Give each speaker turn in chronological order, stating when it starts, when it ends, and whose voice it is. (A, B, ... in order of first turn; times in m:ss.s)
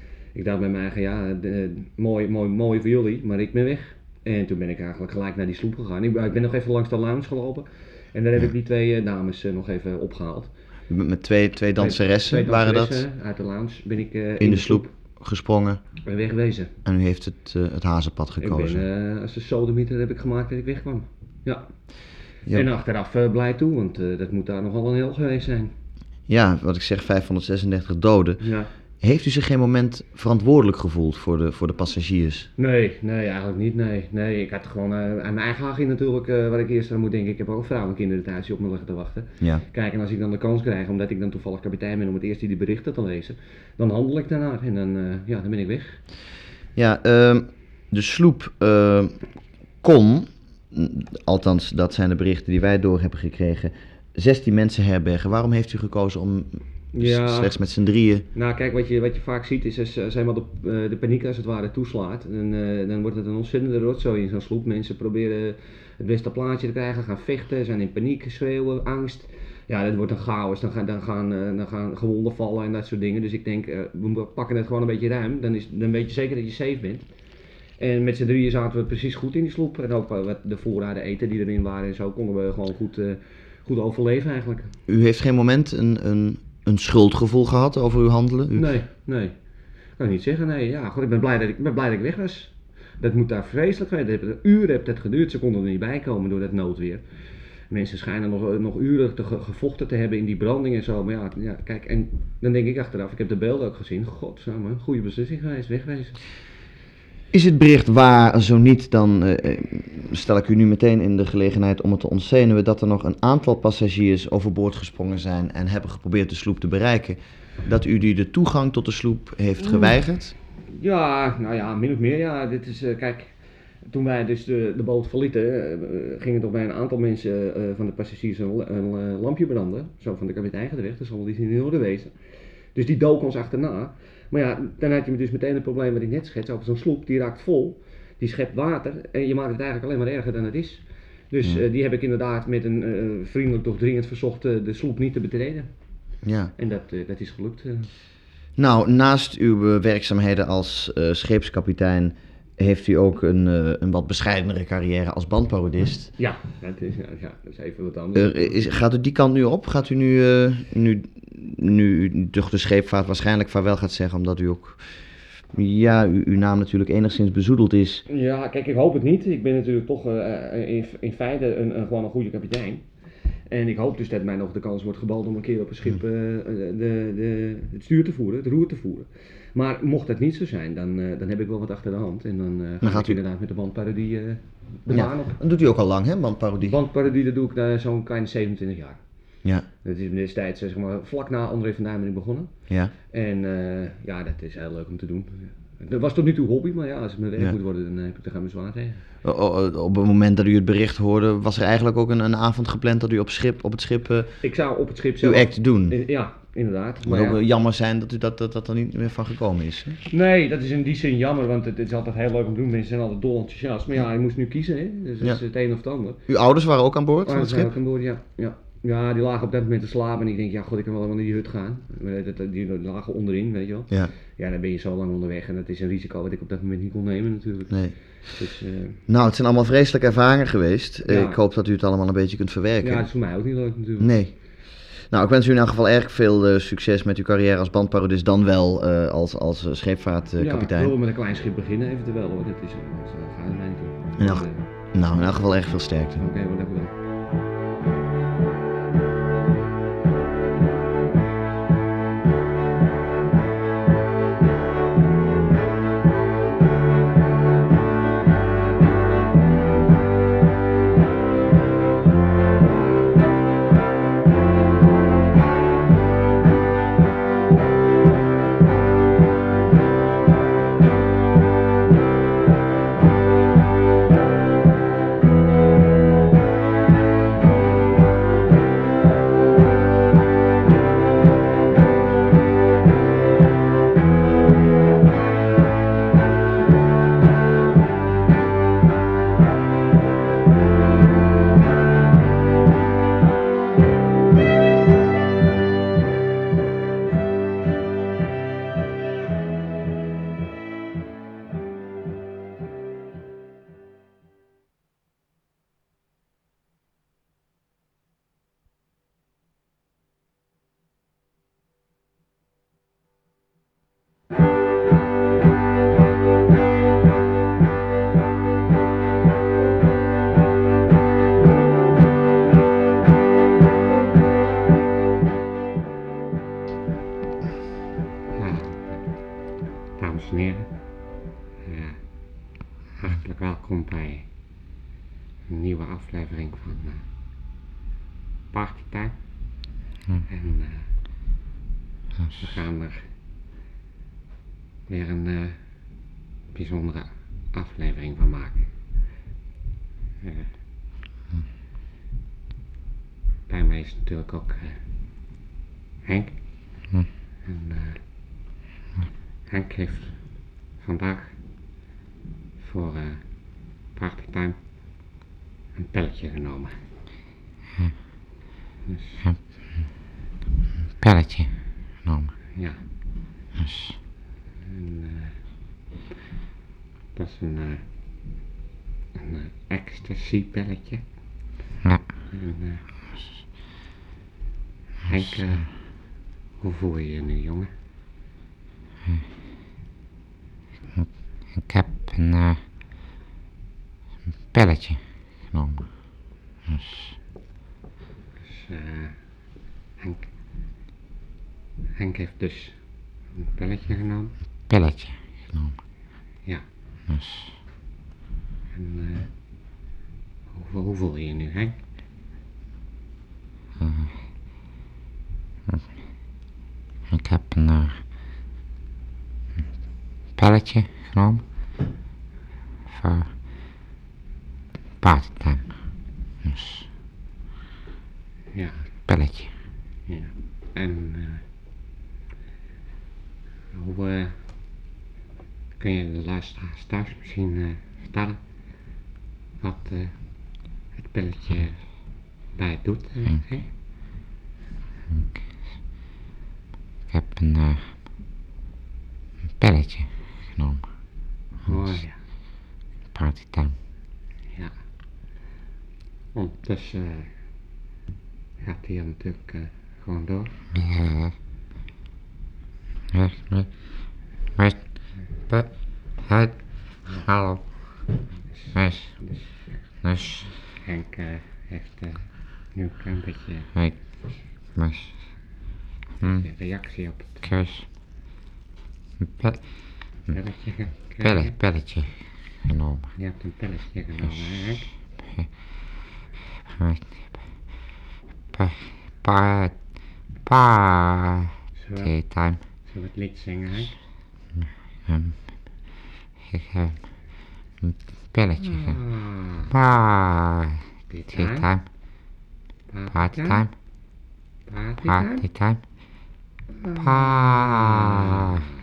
0:00.3-0:10.5 A
0:10.9-0:13.0 B
0:11.8-0:14.9 A
0:14.4-0:15.8 B
0:16.0-0:16.7 A
0:16.8-0:18.8 B
0:18.4-0:21.7 A
0:22.5-0:25.7 A
0:26.3-0:28.4 B
0:28.4-0:28.7 A
0:29.0-0:32.5 B
0:32.6-0:46.0 A
0:46.8-0:49.2 B
0:49.8-0:58.3 B
0:56.9-0:57.6 A
0:58.3-1:17.1 A
1:17.8-1:24.7 A
1:24.9-1:28.7 B
1:28.5-1:29.3 A
1:30.0-1:37.0 A
1:37.7-1:46.2 A
1:47.3-2:00.4 B
2:00.7-2:03.4 A
2:03.9-2:12.2 A
2:12.7-2:25.7 A
2:26.2-2:26.5 B
2:26.6-2:27.9 A
2:28.6-2:36.1 B
2:36.2-2:38.6 A
2:38.2-2:44.8 B
2:45.5-2:48.0 B
2:48.1-2:52.8 A
2:53.5-3:05.4 A
3:02.8-3:03.2 B
3:04.9-3:06.8 B
3:06.6-3:09.0 A
3:09.8-3:12.5 A
3:13.1-3:19.0 A
3:19.2-3:24.4 B
3:24.4-3:27.4 A
3:25.2-3:26.0 B
3:27.0-3:30.0 B
3:30.1-3:36.2 A
3:36.3-3:37.7 B
3:37.2-3:49.0 A
3:47.7-3:48.0 B
3:49.1-3:53.1 B
3:51.0-3:51.4 A
3:52.8-3:54.1 A
3:54.0-4:00.9 B
4:00.4-4:04.6 A
4:04.2-4:06.2 B
4:06.2-4:06.9 A
5:28.3-5:29.0 C
5:30.0-5:30.7 C
5:31.6-5:32.0 C
5:33.0-5:34.3 C
5:35.5-5:37.0 C
5:38.5-5:39.2 C
5:40.3-5:40.9 C
5:42.4-5:43.1 C
5:44.9-5:45.6 C
5:46.5-5:48.7 C
5:50.2-5:50.5 C
5:53.5-5:54.8 C
5:56.0-5:56.4 C
5:57.4-5:58.0 C
5:59.5-6:01.4 C
6:02.6-6:04.6 C
6:05.8-6:06.8 C
6:08.9-6:09.2 C
6:09.2-6:09.8 D
6:11.0-6:12.4 D
6:12.6-6:12.8 C
6:13.6-6:14.0 D
6:14.6-6:15.4 C
6:17.1-6:17.8 C
6:19.2-6:21.0 C
6:22.3-6:22.8 C
6:25.1-6:25.9 C
6:26.6-6:27.7 C
6:31.0-6:32.6 D
6:34.5-6:37.2 D
6:38.4-6:39.2 C
6:40.0-6:40.3 C
6:42.0-6:44.4 C
6:44.7-6:45.8 D
6:47.1-6:47.6 D
6:48.7-6:49.3 C
6:50.5-6:51.8 C
6:53.8-6:54.2 D
6:57.1-6:58.0 D
7:00.4-7:01.4 D
7:02.9-7:03.3 D
7:05.0-7:06.9 D
7:08.5-7:08.9 C
7:09.1-7:09.5 D
7:10.1-7:11.4 C
7:13.7-7:14.4 C
7:15.8-7:18.4 C
7:19.6-7:21.8 C
7:22.5-7:23.7 C
7:25.1-7:25.4 D
7:27.1-7:28.0 D
7:29.6-7:30.9 D
7:31.6-7:32.2 C
7:31.7-7:32.0 D
7:33.1-7:33.8 D
7:36.3-7:37.3 C
7:38.6-7:40.6 C
7:40.7-7:41.4 D
7:43.1-7:48.2 D
7:48.5-7:53.7 C
7:48.8-7:49.3 D
7:50.0-7:50.5 D
7:53.8-7:55.2 D
7:56.2-7:57.4 C
7:57.4-7:57.9 D
7:59.2-8:00.4 D
8:00.3-8:01.5 C
8:01.2-8:03.1 D
8:03.2-8:04.9 C
8:05.0-8:05.6 D
8:06.7-8:07.5 D
8:08.5-8:09.9 D
8:10.4-8:12.6 D
8:11.8-8:14.0 C
8:14.6-8:15.5 D
8:16.4-8:17.2 D
8:17.8-8:19.0 D
8:18.6-8:19.7 C
8:19.7-8:21.9 D
8:21.1-8:21.7 C
8:22.9-8:23.7 C
8:23.1-8:23.7 D
8:24.7-8:25.4 C
8:25.0-8:25.8 D
8:26.8-8:28.7 C
8:27.0-8:28.7 D